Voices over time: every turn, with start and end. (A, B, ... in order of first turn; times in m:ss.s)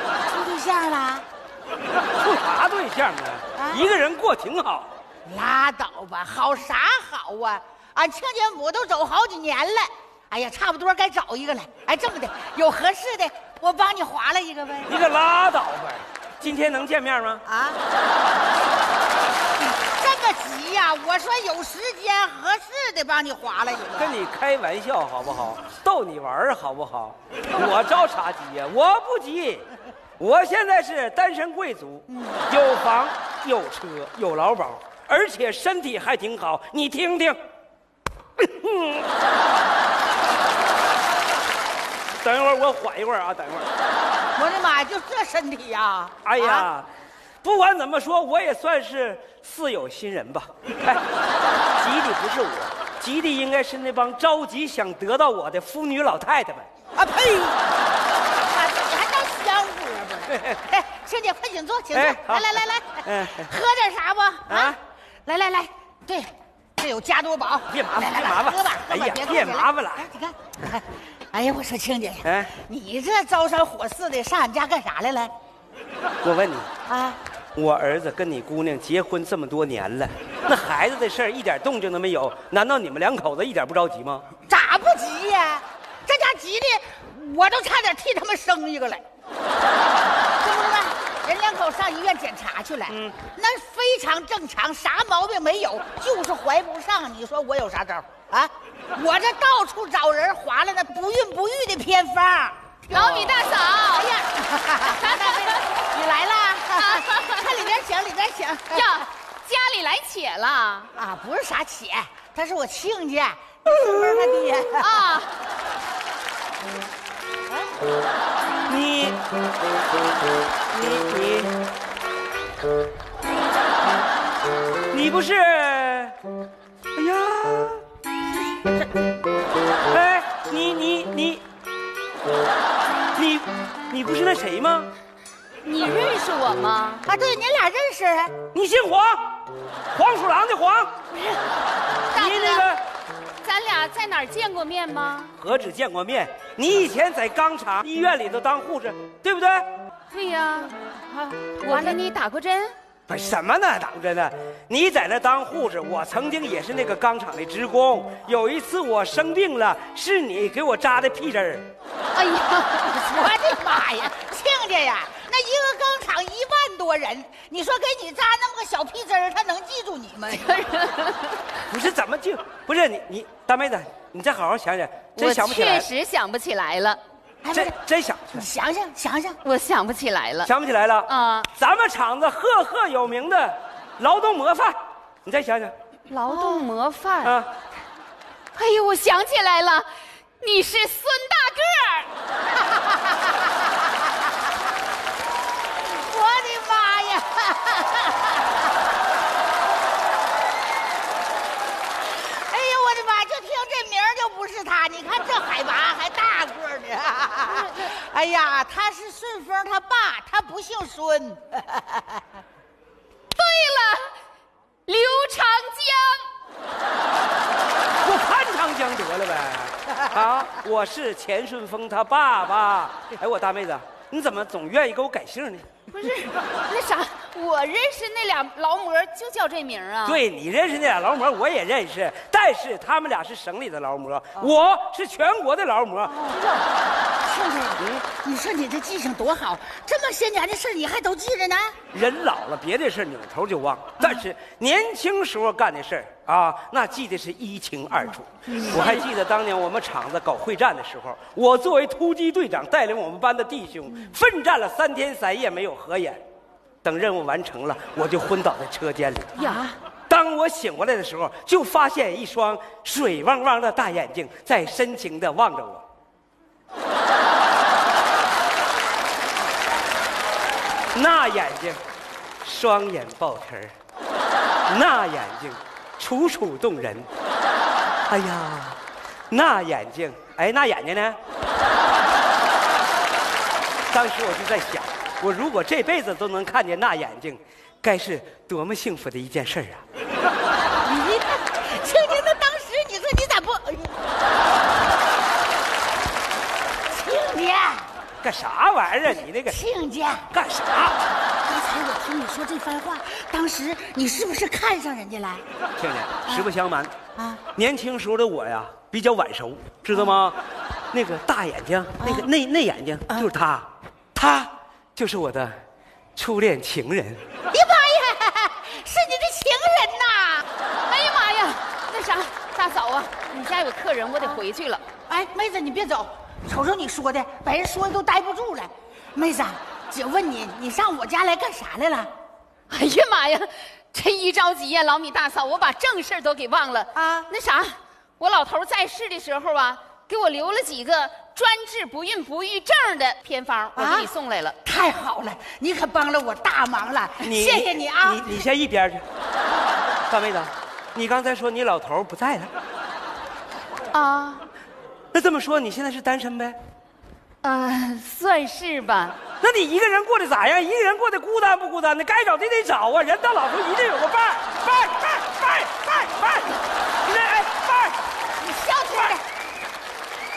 0:00.2-0:01.2 A
0:02.2-0:04.9 B
0:03.6-0:03.9 A
0:05.3-0:15.0 A
0:14.9-0:17.4 B
0:17.4-0:17.8 A
0:19.8-0:24.2 A
0:24.0-0:29.7 B
0:30.2-0:37.4 B
0:32.1-0:32.5 A
0:38.4-0:39.1 B
0:42.2-0:43.7 B
0:44.4-0:46.7 A
0:46.2-0:46.9 B
0:47.4-0:51.0 B
0:51.8-0:56.7 B
0:57.0-0:57.6 A
0:58.5-1:04.7 A
1:00.3-1:00.6 B
1:01.9-1:03.5 B
1:04.5-1:04.8 B
1:05.3-1:15.3 A
1:07.7-1:10.1 B
1:12.2-1:12.5 B
1:16.2-1:16.7 B
1:16.9-1:17.2 A
1:17.6-1:24.3 B
1:24.5-1:29.0 A
1:30.4-1:48.9 A
1:32.9-1:33.2 B
1:42.9-1:44.1 C
1:44.8-1:45.6 C
1:46.7-1:47.7 C
1:48.7-1:50.9 C
1:51.0-1:54.9 A
1:54.8-1:55.3 C
1:58.7-1:59.2 B
2:00.7-2:01.5 B
2:04.9-2:06.2 B
2:07.0-2:07.8 B
2:08.5-2:08.9 A
2:09.9-2:11.4 B
2:13.1-2:14.9 B
2:15.6-2:17.1 C
2:17.1-2:18.3 A
2:18.5-2:19.2 B
2:19.9-2:21.0 B
2:22.2-2:22.8 B
2:22.4-2:22.7 C
2:23.4-2:25.3 C
2:25.4-2:29.7 B
2:30.1-2:30.8 C
2:31.1-2:32.0 A
2:31.6-2:32.7 C
2:33.1-2:41.7 B
2:42.1-2:43.4 C
2:43.0-2:50.6 A
2:50.3-2:51.5 C
2:51.7-2:55.9 B
2:55.2-2:57.0 C
2:57.4-2:57.8 A
2:57.5-2:58.5 B
2:58.3-2:59.4 A
2:59.4-3:00.5 C
3:00.4-3:05.7 B
3:01.1-3:01.5 C
3:06.1-3:07.4 C
3:06.3-3:06.6 A
3:07.2-3:07.5 B
3:08.6-3:09.9 C
3:10.4-3:12.1 C
3:12.6-3:13.4 A
3:15.8-3:18.6 A
3:22.2-3:32.2 A
3:27.4-3:27.9 C
3:33.3-3:34.1 C
3:34.9-3:36.3 C
3:38.0-3:45.7 B
3:45.9-3:50.2 C
3:50.0-3:56.2 B
3:56.0-3:56.7 A
3:57.2-4:01.8 A
3:57.8-3:58.0 B
4:01.9-4:16.2 B
4:08.6-4:08.9 C
4:08.6-4:09.0 A
4:16.8-4:19.4 B
4:19.4-4:19.6 C
4:19.4-4:19.8 A
4:20.1-4:25.8 B
4:30.9-4:31.8 B
4:32.4-4:33.7 B
4:34.7-4:37.1 B
4:38.1-4:38.8 B
4:39.3-4:41.2 B
4:43.9-4:49.8 B
4:50.8-4:54.0 A
4:56.9-4:57.9 A
4:58.2-4:59.6 B
4:59.1-5:00.3 A
5:00.3-5:01.0 B
5:01.4-5:05.4 A
5:05.8-5:06.9 B
5:07.2-5:07.4 A
5:07.6-5:10.4 B
5:10.9-5:15.6 B
5:12.0-5:12.3 A
5:16.2-5:17.2 B
5:17.5-5:20.4 A
5:20.9-5:24.8 C
5:25.1-5:32.1 A
5:32.7-5:44.6 C
5:37.0-5:37.3 A
5:43.8-5:44.1 A
5:44.6-5:48.4 A
5:47.2-5:49.1 B
5:50.1-5:52.5 B
5:53.9-5:54.5 C
5:55.1-5:56.6 B
5:57.4-5:59.2 C
5:59.4-6:08.0 B
6:08.4-6:09.2 A